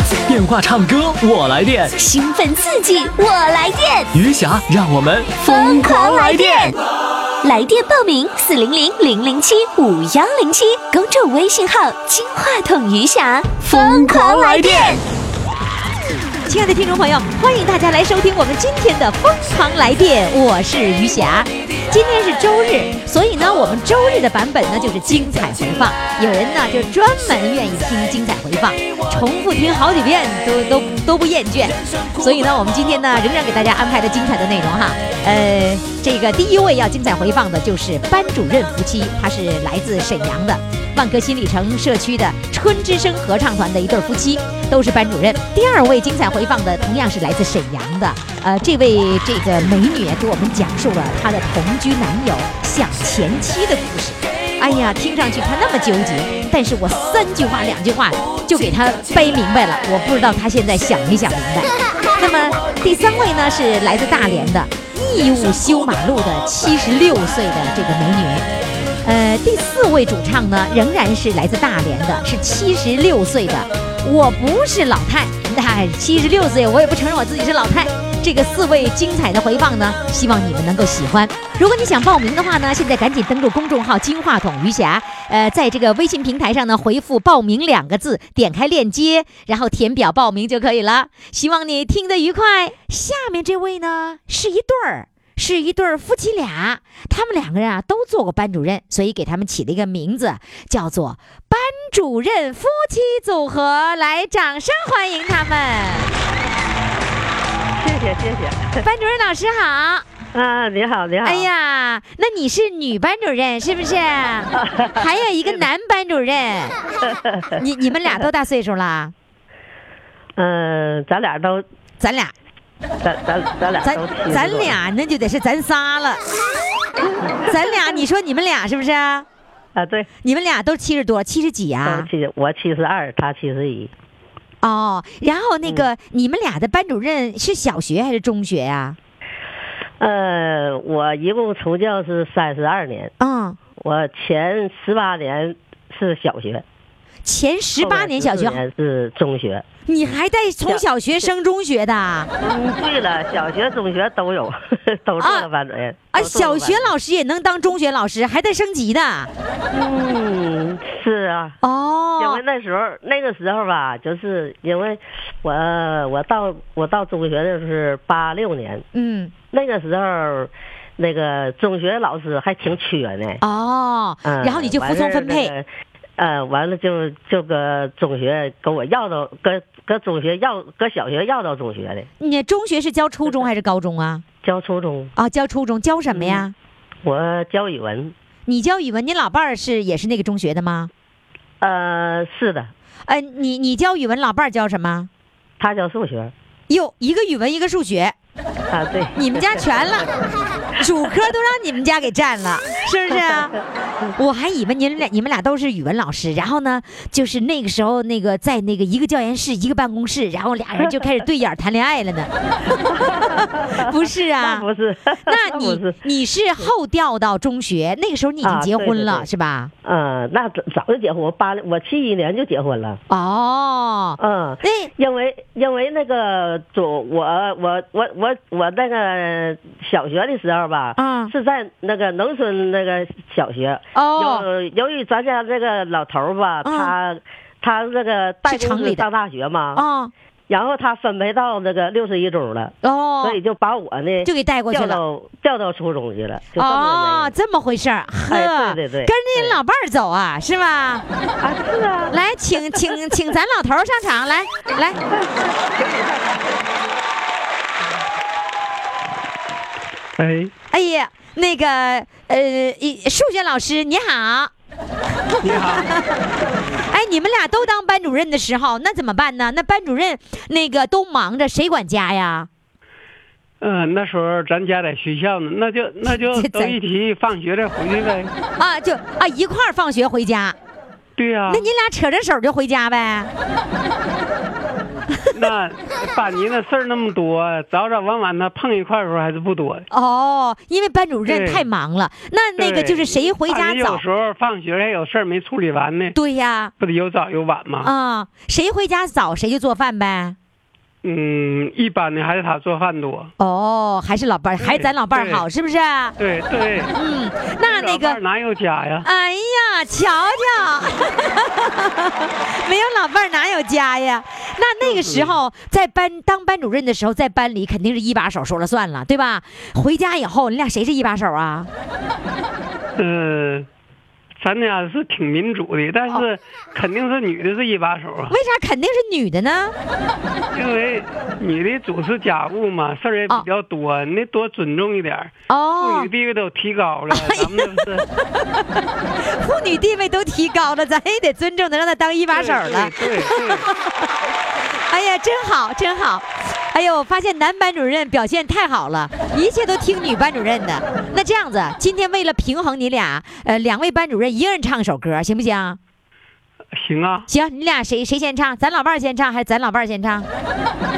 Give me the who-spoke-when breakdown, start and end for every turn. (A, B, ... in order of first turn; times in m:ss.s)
0:00.3-0:01.9 A
0:02.0-0:04.1 B
0:04.1-0:06.7 A
0:05.4-0:06.8 B
0:07.4-0:15.0 B
0:13.7-0:15.0 A
0:16.5-1:08.4 C
1:09.0-1:46.1 C
1:47.8-1:48.8 D
1:48.8-1:50.0 C
1:50.3-1:51.5 D
1:51.2-1:56.8 C
1:54.5-1:55.7 D
1:57.1-1:57.6 D
1:57.6-1:59.1 C
2:00.4-2:01.6 D
2:02.0-2:02.3 C
2:03.0-2:04.8 D
2:03.8-2:06.2 C
2:07.0-2:08.0 D
2:07.4-2:09.2 C
2:09.7-2:10.1 D
2:10.2-2:12.1 C
2:11.8-2:13.9 D
2:14.6-2:19.0 C
2:20.0-2:23.1 D
2:23.2-2:23.6 C
2:23.8-2:26.6 D
2:27.2-2:28.6 C
2:27.8-2:29.6 D
2:29.9-2:32.3 C
2:32.4-2:36.9 D
2:35.2-2:35.5 C
2:36.1-2:39.3 C
2:39.7-2:41.6 D
2:41.6-2:42.4 C
2:42.2-2:48.8 D
2:48.9-2:49.3 C
2:49.5-2:53.4 D
2:53.4-2:55.5 C
2:54.2-2:55.7 D
2:56.2-3:02.1 D
3:02.2-3:04.2 C
3:04.4-3:05.1 D
3:05.2-3:06.5 C
3:06.1-3:06.4 D
3:07.0-3:08.1 D
3:08.5-3:10.9 C
3:11.6-3:12.7 D
3:13.0-3:15.1 C
3:15.6-3:16.3 D
3:16.7-3:18.1 C
3:18.7-3:20.2 D
3:19.1-3:20.2 C
3:20.8-3:23.5 C
3:23.1-3:23.6 D
3:24.2-3:34.6 C
3:32.9-3:36.0 D
3:35.2-3:39.7 C
3:38.4-3:39.3 D
3:39.8-3:43.0 D
3:43.1-3:44.9 C
3:44.2-3:59.8 D
3:51.0-3:51.3 C
3:53.9-3:54.4 C
3:56.6-3:56.9 C
3:58.4-3:59.0 C
3:59.7-4:00.1 C
4:00.5-4:07.3 D
4:02.8-4:03.4 C
4:04.2-4:05.0 C
4:06.6-4:11.0 C
4:08.3-4:09.6 D
4:11.4-4:12.2 D
4:12.1-4:15.0 C
4:15.1-4:16.6 D
4:20.2-4:20.5 E
4:20.7-4:24.5 C
4:25.4-4:25.9 E
4:25.4-4:26.1 C
4:26.8-4:32.5 C
4:33.6-4:38.3 E
4:36.1-4:36.8 C
4:38.6-4:40.6 C
4:41.2-4:41.6 E
4:41.5-4:43.3 C
4:45.3-4:49.8 E
4:49.9-4:54.0 C
4:51.2-4:51.6 E
4:52.6-4:56.2 E
4:56.1-4:56.7 C
4:56.8-4:57.9 E
4:57.8-5:00.4 C
5:01.0-5:03.3 E
5:03.4-5:06.2 C
5:04.6-5:05.4 E
5:06.2-5:06.9 E
5:06.9-5:08.2 C
5:07.6-5:09.1 E
5:09.0-5:21.7 C
5:14.8-5:15.4 E
5:23.0-5:23.7 E
5:24.4-5:28.4 E
5:28.3-5:29.7 C
5:30.5-5:38.1 E
5:35.5-5:36.1 C
5:37.1-5:43.9 C
5:42.3-5:43.7 E
5:44.8-5:55.8 C
5:56.8-5:57.3 E
5:57.3-6:00.3 C